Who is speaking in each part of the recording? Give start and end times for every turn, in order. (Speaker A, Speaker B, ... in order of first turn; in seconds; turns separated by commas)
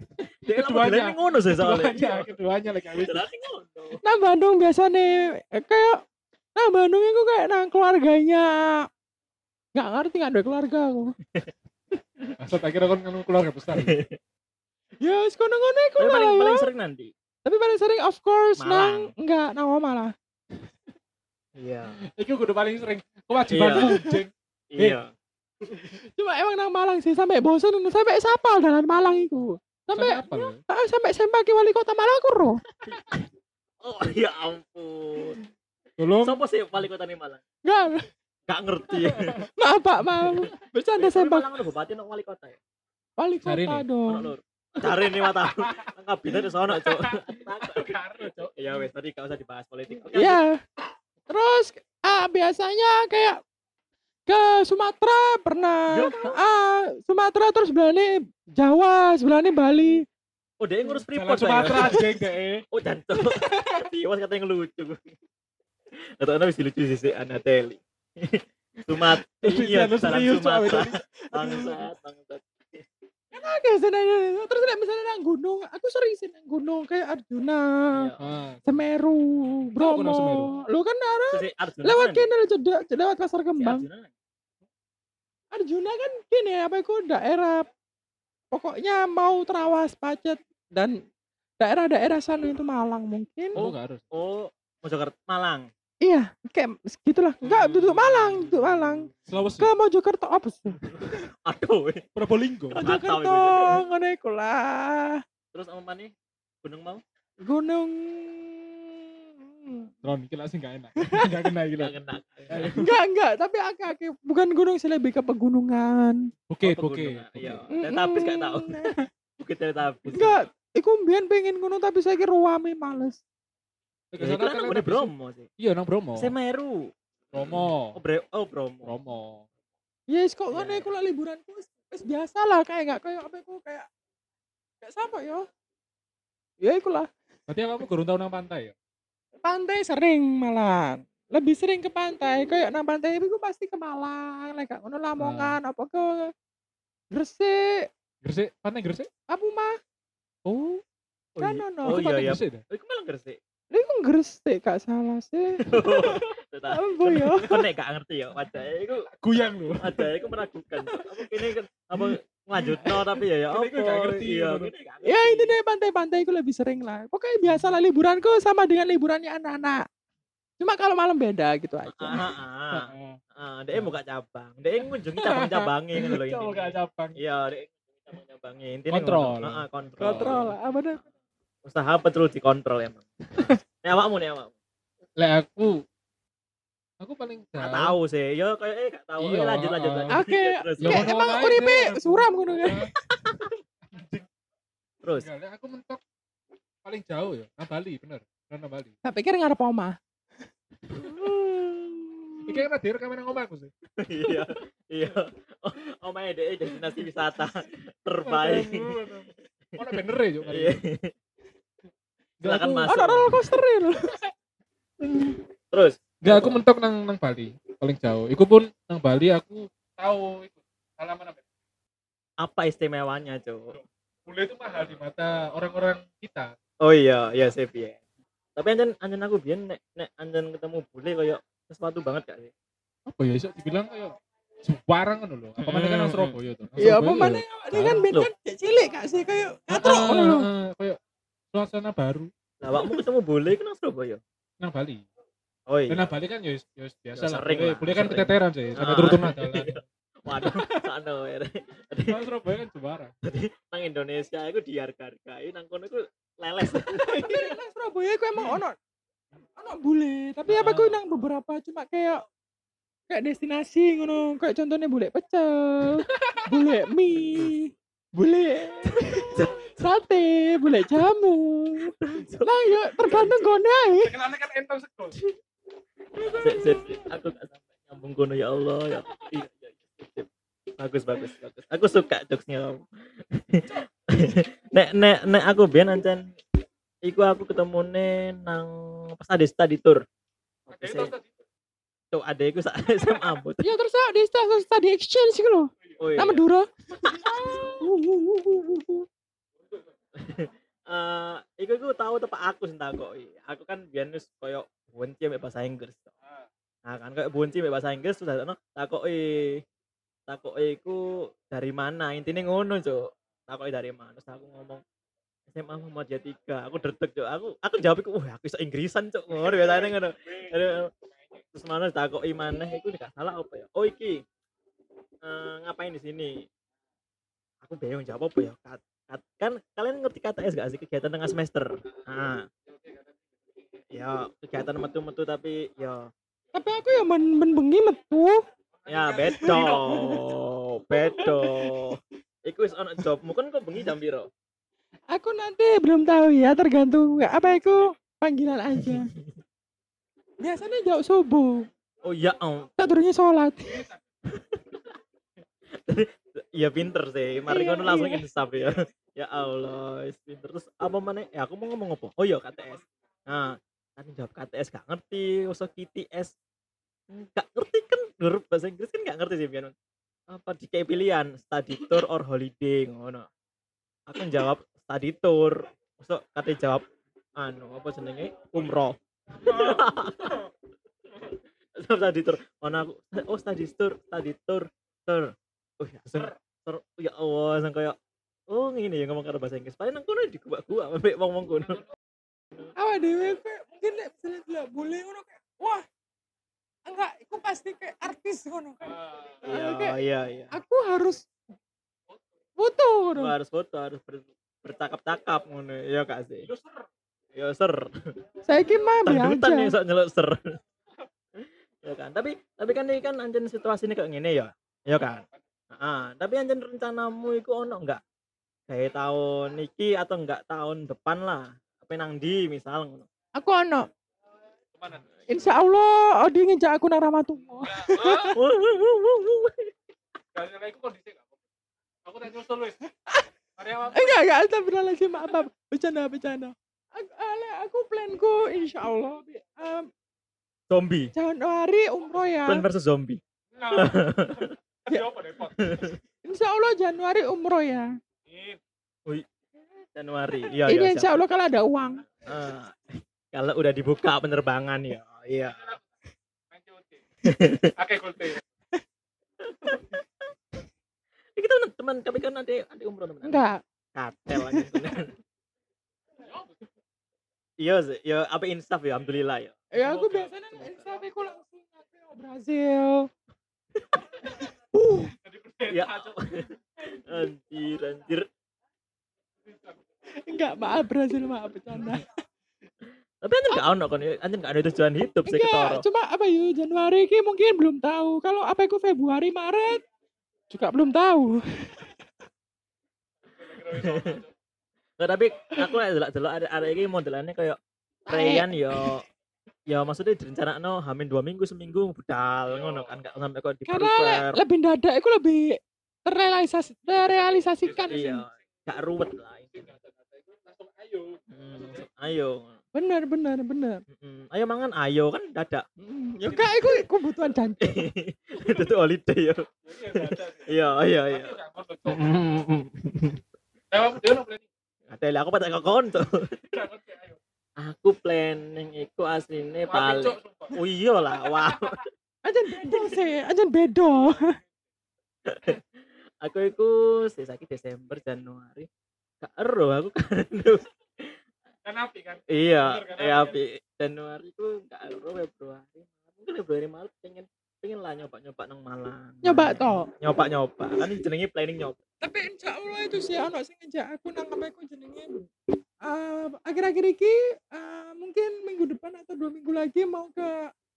Speaker A: 0.5-3.2, Speaker B: 0.5-2.3, Speaker B: 2.9-4.0, Speaker C: 4.0-6.0, Speaker C: 6.6-8.8, Speaker C: 9.7-11.1, Speaker A: 12.4-13.9, Speaker B: 13.7-14.2, Speaker C: 15.0-16.6, Speaker B: 16.0-17.1, Speaker C: 17.4-20.1, Speaker B: 18.6-19.1, Speaker B: 21.6-22.0, Speaker A: 22.0-25.0, Speaker B: 23.5-24.0, Speaker C: 23.8-24.2, Speaker B: 24.7-25.1, Speaker C: 26.2-32.6, Speaker A: 29.9-30.6, Speaker B: 32.9-33.2, Speaker B: 33.8-35.4, Speaker A: 36.0-36.4, Speaker B: 36.2-37.4, Speaker C: 37.6-38.0, Speaker B: 38.5-39.4, Speaker A: 39.1-39.4, Speaker C: 39.6-41.4, Speaker B: 41.0-42.6, Speaker C: 43.2-44.3, Speaker A: 43.4-43.9, Speaker B: 44.1-47.9, Speaker A: 46.7-48.9, Speaker B: 48.5-50.4, Speaker C: 50.1-50.5, Speaker C: 51.3-53.4, Speaker C: 54.3-60.0, Speaker B: 55.9-56.4, Speaker B: 60.6-62.0, Speaker A: 61.1-62.6, Speaker B: 62.7-65.0, Speaker B: 66.2-72.8, Speaker A: 69.4-71.0, Speaker C: 73.3-78.1, Speaker A: 78.2-78.8, Speaker C: 78.7-83.8, Speaker A: 79.8-80.5, Speaker B: 81.3-82.3, Speaker B: 83.6-84.1, Speaker C: 85.5-87.6, Speaker C: 88.5-90.9, Speaker C: 91.6-93.6, Speaker A: 93.5-94.0, Speaker B: 93.5-95.7, Speaker C: 96.0-99.1, Speaker A: 97.4-99.7, Speaker C: 99.6-100.8, Speaker B: 101.4-102.0, Speaker A: 102.2-102.8, Speaker B: 102.7-103.8, Speaker C: 102.8-105.2, Speaker B: 105.5-106.1, Speaker B: 106.6-107.0, Speaker C: 107.4-109.9, Speaker A: 110.0-111.9, Speaker B: 111.8-112.8, Speaker A: 112.5-112.9, Speaker C: 112.7-116.2, Speaker A: 116.5-117.6, Speaker B: 116.6-118.8, Speaker C: 117.7-119.0, Speaker B: 119.4-120.4, Speaker C: 120.1-123.2, Speaker A: 124.1-126.3, Speaker B: 124.2-125.5, Speaker B: 126.2-128.9, Speaker A: 127.3-128.0, Speaker A: 128.8-129.4, Speaker C: 130.1-133.9, Speaker B: 130.5-130.8, Speaker C: 134.8-135.4, Speaker C: 136.6-137.1, Speaker A: 137.5-138.7, Speaker C: 139.4-146.3, Speaker A: 145.2-145.6, Speaker C: 147.1-147.9, Speaker A: 148.2-149.1, Speaker C: 149.3-149.7, Speaker A: 150.4-150.8, Speaker C: 151.4-152.0, Speaker B: 151.4-153.4, Speaker A: 151.8-152.6, Speaker C: 153.7-155.6, Speaker B: 155.7-159.1, Speaker C: 156.7-157.6, Speaker A: 159.2-160.1, Speaker B: 159.8-165.5, Speaker A: 160.9-161.2, Speaker A: 162.0-164.7, Speaker C: 165.1-169.8, Speaker C: 170.6-172.2, Speaker B: 171.9-180.5, Speaker A: 172.7-173.2, Speaker A: 175.3-177.2, Speaker A: 178.9-180.5, Speaker C: 180.0-181.0, Speaker B: 181.6-184.5, Speaker A: 185.2-185.7, Speaker A: 187.0-187.9, Speaker B: 187.6-191.1, Speaker A: 189.2-190.2, Speaker C: 190.1-192.8, Speaker A: 190.8-192.9, Speaker A: 193.9-194.2, Speaker B: 195.0-195.3, Speaker A: 195.2-196.0, Speaker A: 196.8-198.9, Speaker C: 199.0-199.9, Speaker C: 200.9-202.1, Speaker A: 202.5-203.7, Speaker B: 204.0-208.9, Speaker A: 208.2-210.8, Speaker B: 209.8-211.1, Speaker A: 212.4-212.9, Speaker B: 212.4-213.4, Speaker C: 212.9-214.2, Speaker B: 215.0-216.6, Speaker A: 216.2-221.4, Speaker B: 222.4-223.7, Speaker A: 223.7-226.5, Speaker B: 226.8-228.0, Speaker B: 228.6-232.5, Speaker A: 233.1-238.0, Speaker B: 235.6-236.3, Speaker C: 236.8-240.4, Speaker B: 237.9-238.3, Speaker A: 239.7-241.0, Speaker A: 241.5-242.3, Speaker B: 242.6-244.2, Speaker A: 244.6-245.0, Speaker B: 245.7-246.0, Speaker A: 245.9-249.7, Speaker B: 247.2-252.2, Speaker A: 250.4-250.8, Speaker A: 252.1-253.1, Speaker B: 253.2-257.4, Speaker C: 256.8-258.8, Speaker C: 259.6-262.2, Speaker A: 260.5-261.0, Speaker C: 263.1-271.9, Speaker A: 266.1-266.6, Speaker B: 269.3-269.7, Speaker B: 271.8-273.4, Speaker C: 272.4-274.1, Speaker A: 274.0-275.2, Speaker A: 276.2-276.8, Speaker B: 276.2-280.3, Speaker B: 280.8-286.2, Speaker B: 287.0-290.0, Speaker B: 290.7-291.1, Speaker A: 290.7-291.3, Speaker B: 292.1-293.7, Speaker C: 293.6-297.8, Speaker B: 296.0-296.4, Speaker B: 297.1-299.0, Speaker A: 297.2-297.8, Speaker B: 300.2-306.1, Speaker B: 306.9-309.6, Speaker B: 310.3-314.8, Speaker B: 315.5-320.9, Speaker B: 321.5-324.2, Speaker B: 325.2-326.4, Speaker B: 327.6-332.5, Speaker A: 332.7-333.1, Speaker B: 333.9-336.1, Speaker C: 336.5-338.4, Speaker A: 338.9-340.2, Speaker B: 338.9-344.3, Speaker C: 339.7-340.2, Speaker C: 341.1-341.5, Speaker C: 345.1-349.1, Speaker C: 350.4-351.6, Speaker B: 352.0-352.7, Speaker C: 352.8-353.8, Speaker B: 354.3-354.6, Speaker B: 355.8-366.3, Speaker C: 357.5-358.2, Speaker B: 367.1-369.7, Speaker B: 370.3-373.3, Speaker B: 374.1-376.8, Speaker B: 377.4-380.5, Speaker A: 379.4-379.8, Speaker B: 381.2-387.9, Speaker B: 388.5-391.8, Speaker C: 392.8-395.8, Speaker C: 396.9-399.9, Speaker A: 398.9-399.4, Speaker B: 399.4-400.5, Speaker C: 400.5-401.2, Speaker C: 402.6-403.3, Speaker B: 403.1-406.5, Speaker A: 406.5-406.9, Speaker B: 407.3-407.9, Speaker C: 408.4-409.7, Speaker B: 409.0-410.5, Speaker B: 411.4-418.0, Speaker B: 418.7-423.1, Speaker C: 423.4-423.9, Speaker A: 424.7-425.1, Speaker C: 425.3-428.3, Speaker A: 427.7-428.3, Speaker B: 428.3-429.7, Speaker A: 430.3-431.3, Speaker A: 432.0-432.8, Speaker A: 433.6-434.2, Speaker C: 433.9-439.9, Speaker B: 440.7-441.1, Speaker C: 441.1-442.6, Speaker B: 442.4-444.5, Speaker A: 443.5-445.9, Speaker B: 445.6-446.0, Speaker C: 446.2-447.9, Speaker A: 448.3-448.6, Speaker B: 449.9-451.1, Speaker C: 450.6-452.1, Speaker B: 452.2-455.7, Speaker A: 456.5-457.0, Speaker B: 457.2-457.7, Speaker A: 457.8-458.4, Speaker B: 459.4-460.1, Speaker B: 461.4-463.4, Speaker C: 463.2-463.6, Speaker B: 463.9-465.1, Speaker C: 464.3-464.7, Speaker A: 466.2-466.6, Speaker B: 467.6-469.6, Speaker C: 469.7-473.1, Speaker A: 469.8-470.3, Speaker B: 470.5-470.8, Speaker C: 474.7-475.1, Speaker A: 475.2-476.1, Speaker B: 475.7-478.3, Speaker C: 480.2-482.1, Speaker B: 483.2-485.8, Speaker C: 485.2-489.8, Speaker C: 490.5-491.9, Speaker A: 493.4-494.3, Speaker B: 493.6-494.2, Speaker B: 495.0-499.0, Speaker C: 498.1-498.8, Speaker B: 499.7-504.4, Speaker A: 502.5-503.0, Speaker C: 503.7-505.5, Speaker C: 506.1-508.2, Speaker A: 507.6-507.9, Speaker B: 507.9-509.6, Speaker A: 509.5-511.9, Speaker B: 511.3-512.6, Speaker C: 512.7-513.8, Speaker B: 513.9-515.6, Speaker C: 515.8-517.8, Speaker A: 516.3-516.8, Speaker B: 517.6-523.2, Speaker A: 519.6-520.5, Speaker A: 521.1-522.1, Speaker A: 523.7-524.4, Speaker B: 524.9-526.4, Speaker A: 526.5-527.2, Speaker B: 527.6-531.8, Speaker A: 529.7-530.5, Speaker A: 531.2-531.7, Speaker C: 532.2-534.4, Speaker B: 535.3-535.6, Speaker B: 536.2-538.7, Speaker B: 539.2-541.2, Speaker A: 541.6-543.4, Speaker B: 542.3-551.8, Speaker C: 549.2-549.9, Speaker C: 552.0-555.2, Speaker C: 555.8-560.4